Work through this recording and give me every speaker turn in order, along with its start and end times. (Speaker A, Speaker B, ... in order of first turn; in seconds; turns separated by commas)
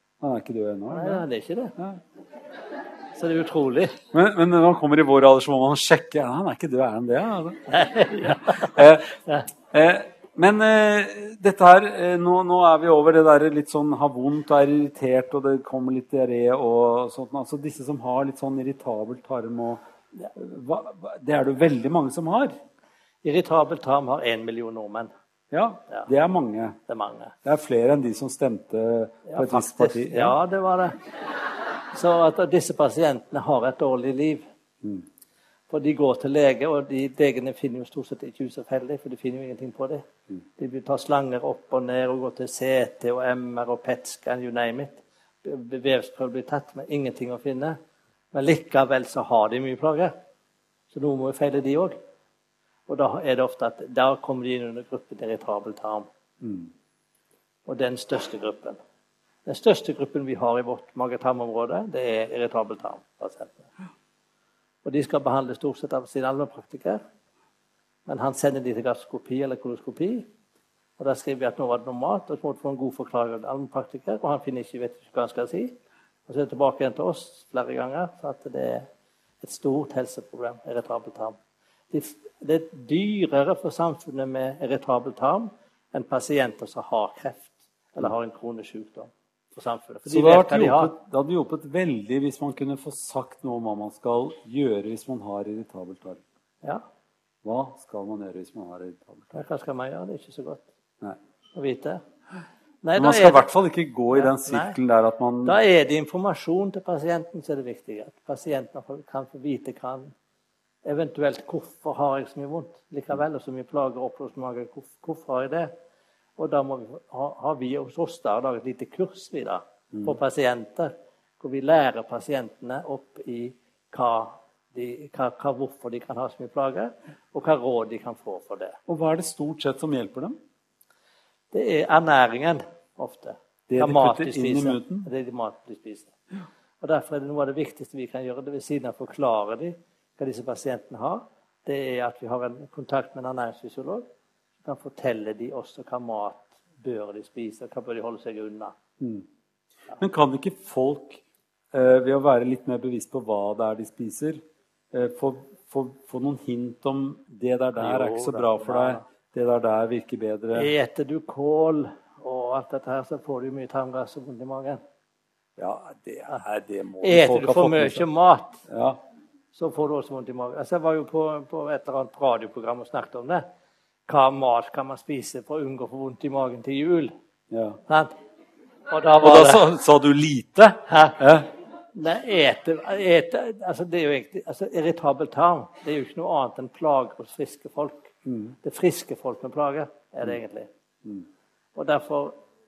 Speaker A: 0.2-1.2, Speaker B: 0.9-1.7, Speaker B: 3.1-4.0, Speaker A: 4.1-7.7, Speaker B: 7.7-9.5, Speaker A: 8.3-9.2, Speaker A: 9.7-19.8, Speaker A: 20.3-22.6, Speaker B: 23.2-25.1, Speaker A: 25.5-26.8, Speaker B: 26.9-27.3, Speaker A: 27.4-30.4, Speaker B: 29.3-31.1, Speaker B: 31.9-34.4, Speaker B: 35.7-40.0, Speaker B: 40.6-47.8, Speaker B: 48.3-50.1, Speaker B: 50.9-52.0, Speaker B: 52.9-56.0, Speaker A: 56.4-56.7, Speaker B: 57.6-58.8, Speaker B: 59.5-63.7, Speaker B: 64.8-67.0, Speaker B: 68.0-70.3, Speaker B: 71.0-75.7, Speaker B: 76.3-78.8, Speaker B: 79.4-81.4, Speaker B: 81.9-90.9, Speaker A: 90.1-96.2, Speaker A: 97.4-99.4, Speaker B: 99.3-100.7, Speaker B: 101.5-102.0, Speaker B: 102.8-103.4, Speaker A: 102.9-105.6, Speaker B: 104.1-104.8, Speaker B: 105.4-110.1, Speaker B: 110.8-115.7, Speaker B: 116.4-128.8, Speaker A: 128.9-130.4, Speaker B: 131.5-136.1, Speaker A: 133.7-135.1, Speaker B: 136.8-144.1, Speaker B: 144.6-148.7, Speaker A: 149.0-149.2, Speaker A: 149.9-151.2, Speaker A: 151.7-154.4, Speaker A: 154.9-160.7, Speaker B: 157.8-159.0, Speaker B: 160.5-164.8, Speaker A: 165.6-168.0, Speaker B: 167.0-168.6, Speaker A: 168.7-169.0, Speaker B: 169.5-173.4, Speaker B: 174.1-177.1, Speaker A: 177.5-177.8, Speaker B: 177.9-178.1, Speaker B: 178.9-179.6, Speaker A: 179.2-181.5, Speaker B: 180.9-181.2, Speaker B: 181.9-188.1, Speaker A: 188.2-188.6, Speaker B: 188.6-190.7, Speaker B: 191.7-192.3